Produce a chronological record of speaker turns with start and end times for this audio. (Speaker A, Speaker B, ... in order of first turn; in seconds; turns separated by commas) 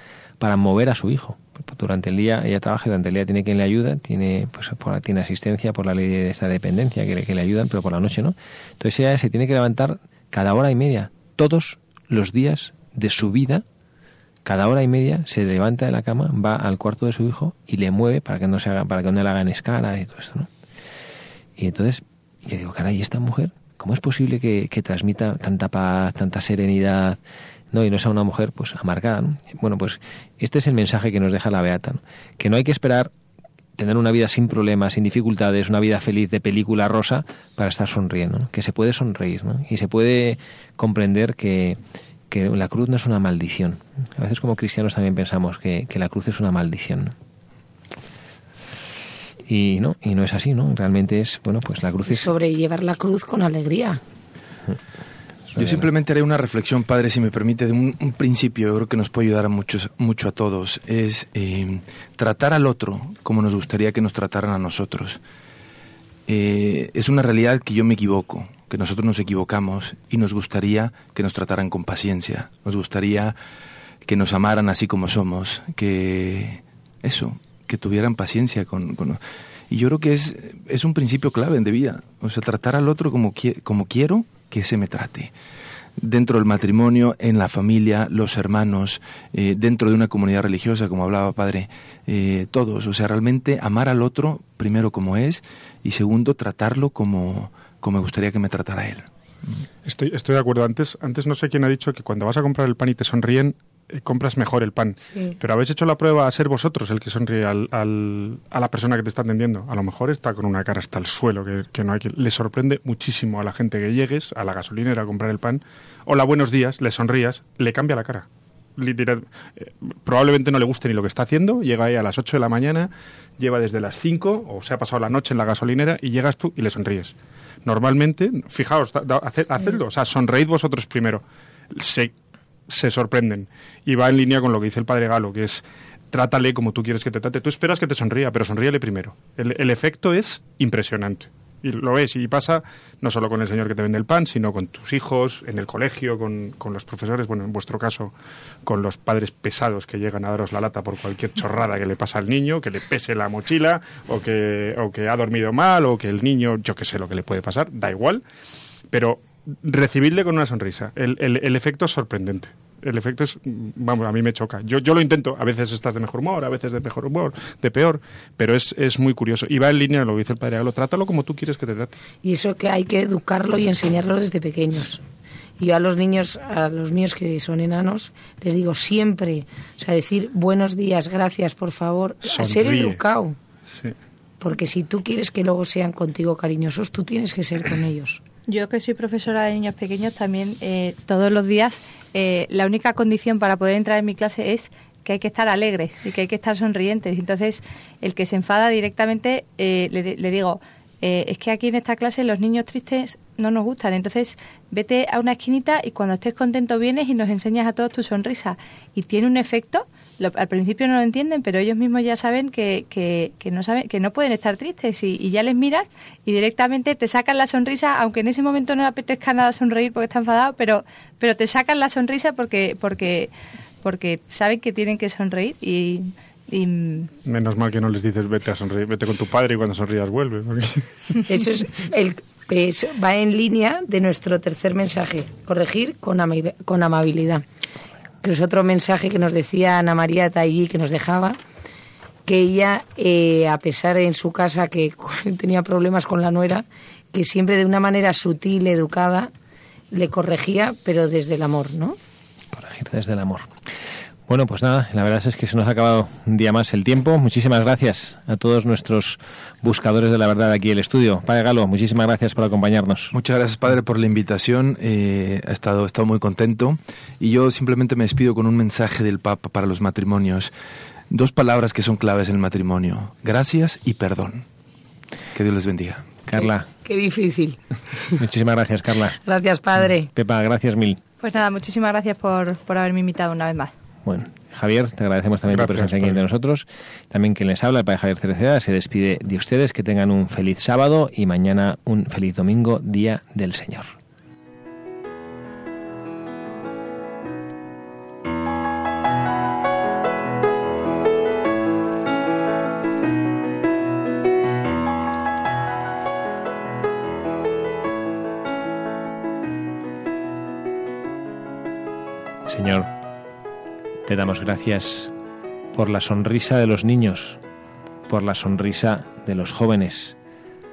Speaker A: 0.4-13.6, Speaker A: 14.4-20.5, Speaker A: 21.6-27.2, Speaker A: 27.7-33.1, Speaker A: 33.8-41.8, Speaker A: 42.3-47.1, Speaker A: 49.5-52.3, Speaker B: 52.1-54.0, Speaker A: 55.5-55.9, Speaker C: 55.5-65.2, Speaker C: 66.3-73.3, Speaker C: 74.0-85.3, Speaker C: 86.0-99.1, Speaker D: 99.8-132.1, Speaker D: 132.7-148.1, Speaker D: 148.6-158.2, Speaker D: 158.9-171.9, Speaker B: 172.2-175.0, Speaker B: 175.6-183.3, Speaker D: 182.3-183.0, Speaker B: 184.4-188.2, Speaker E: 188.5-223.3, Speaker E: 223.8-227.1, Speaker D: 227.2-231.2, Speaker B: 231.3-237.4, Speaker B: 238.2-241.4, Speaker B: 242.2-249.3, Speaker B: 249.9-252.0, Speaker A: 252.5-253.5, Speaker A: 254.3-263.1, Speaker C: 263.1-270.5, Speaker C: 271.1-274.4, Speaker C: 275.3-276.1, Speaker A: 276.2-276.7, Speaker B: 276.3-278.2, Speaker A: 278.2-279.2, Speaker B: 279.2-280.1, Speaker A: 280.1-281.0, Speaker E: 281.2-283.7, Speaker A: 284.0-293.9, Speaker D: 285.5-286.2, Speaker A: 312.4-312.9, Speaker A: 314.1-315.1, Speaker A: 315.7-317.4, Speaker A: 318.1-320.1